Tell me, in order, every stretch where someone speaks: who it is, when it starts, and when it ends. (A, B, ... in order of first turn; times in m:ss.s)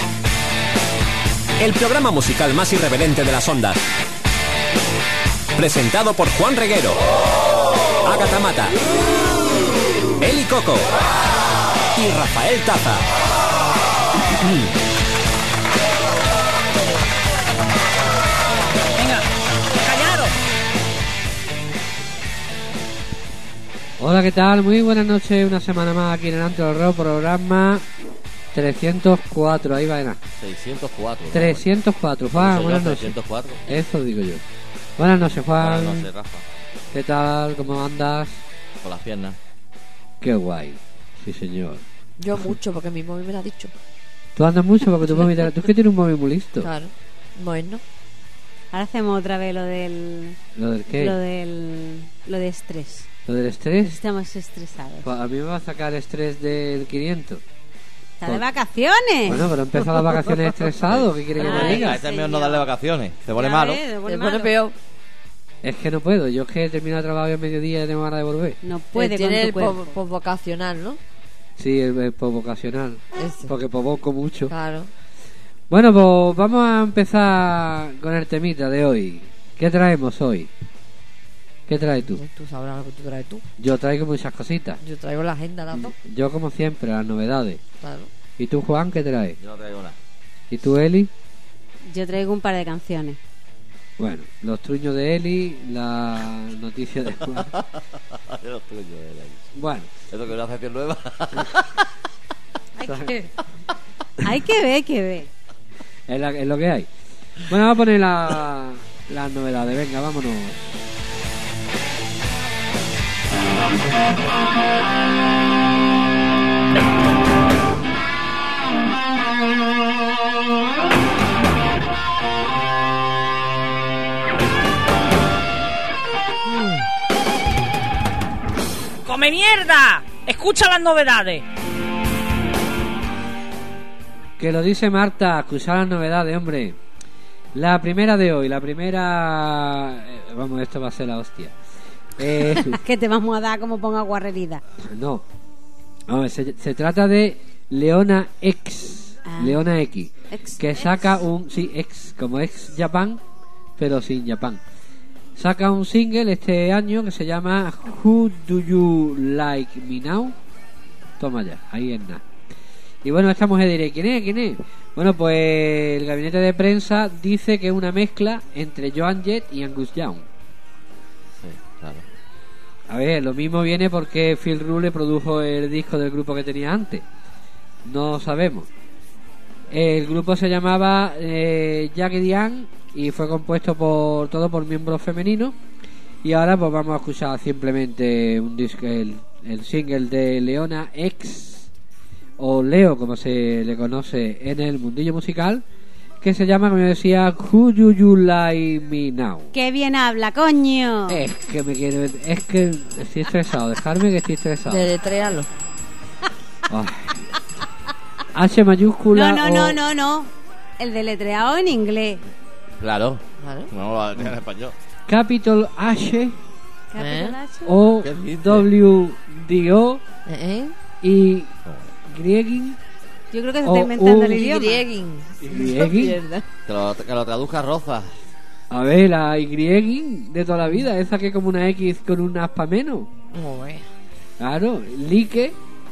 0:01.6-0:03.8 A
0:05.6-0:07.1 A
0:08.0-0:08.8 A
0:10.2-0:10.9 A
0:11.9-0:13.1 A
0:14.4-0:14.7 A
0:19.0-0:20.3 B
0:24.0-0:27.8 C
0:28.5-0:30.2 C
0:30.4-0:31.6 D
0:31.3-0:33.1 C
0:32.3-0:33.7 D
0:33.7-0:34.4 C
0:35.0-0:36.1 C
0:35.6-0:36.4 D
0:36.9-0:38.4 C
0:38.8-0:39.4 D
0:40.2-0:41.8 C
0:42.2-0:43.7 E
0:44.4-0:46.7 C
0:46.6-0:47.8 E
0:48.7-0:50.4 F
0:50.6-0:51.2 C
0:51.0-0:53.1 F
0:53.3-0:54.0 C
0:53.8-0:55.1 F
0:55.0-0:57.4 C
0:58.2-0:59.5 F
0:59.3-1:02.0 C
1:01.4-1:03.8 D
1:01.4-1:02.7 F
1:03.4-1:04.5 F
1:04.1-1:04.8 E
1:05.6-1:08.6 C
1:08.6-1:09.9 F
1:09.0-1:11.0 E
1:11.6-1:14.5 C
1:13.2-1:13.5 E
1:14.5-1:14.9 E
1:15.7-1:20.5 C
1:21.7-1:22.2 C
1:22.1-1:23.4 E
1:23.6-1:24.8 C
1:24.8-1:25.9 E
1:25.8-1:27.6 C
1:27.8-1:28.1 E
1:28.4-1:29.4 C
1:29.4-1:30.0 D
1:30.5-1:31.1 C
1:31.9-1:33.2 F
1:34.0-1:37.5 C
1:37.4-1:39.5 D
1:39.6-1:39.9 C
1:40.1-1:41.8 D
1:42.8-1:43.2 F
1:42.8-1:43.2 C
1:44.2-1:45.3 F
1:46.1-1:46.9 C
1:47.5-1:50.8 C
2:09.1-2:11.4 B
2:14.4-2:16.8 C
2:17.6-2:21.5 C
2:22.2-2:22.8 C
2:22.5-2:24.6 F
2:24.9-2:25.2 C
2:26.1-2:33.2 C
2:29.3-2:29.6 F
2:30.3-2:31.2 F
2:33.8-2:34.6 C
2:35.4-2:40.3 C
2:41.2-2:42.2 C
2:43.0-2:50.2 C
2:51.4-2:52.0 D
2:52.9-2:57.0 C
2:57.8-2:58.7 C
2:59.7-3:05.6 C
3:06.2-3:11.7 C
3:12.4-3:15.6 C
3:16.2-3:19.5 C
3:19.5-3:21.2 F
3:21.1-3:24.9 C
3:24.7-3:25.5 E
3:26.7-3:27.3 C
3:28.4-3:29.8 C
3:29.1-3:32.2 F
3:32.8-3:34.8 D
3:33.4-3:33.7 E
3:35.1-3:36.4 C
3:36.9-3:37.7 F
3:37.0-3:37.4 E
3:37.6-3:40.0 C
3:38.0-3:38.7 D
3:40.3-3:40.7 E
3:41.0-3:41.5 C
3:41.6-3:41.9 D
3:42.1-3:42.8 C
3:43.3-3:44.8 F
3:43.6-3:44.4 C
3:44.3-3:46.4 E
3:45.5-3:46.2 C
3:46.7-3:48.1 D
3:48.7-3:53.1 C
3:53.3-3:53.9 E
3:54.4-3:55.6 C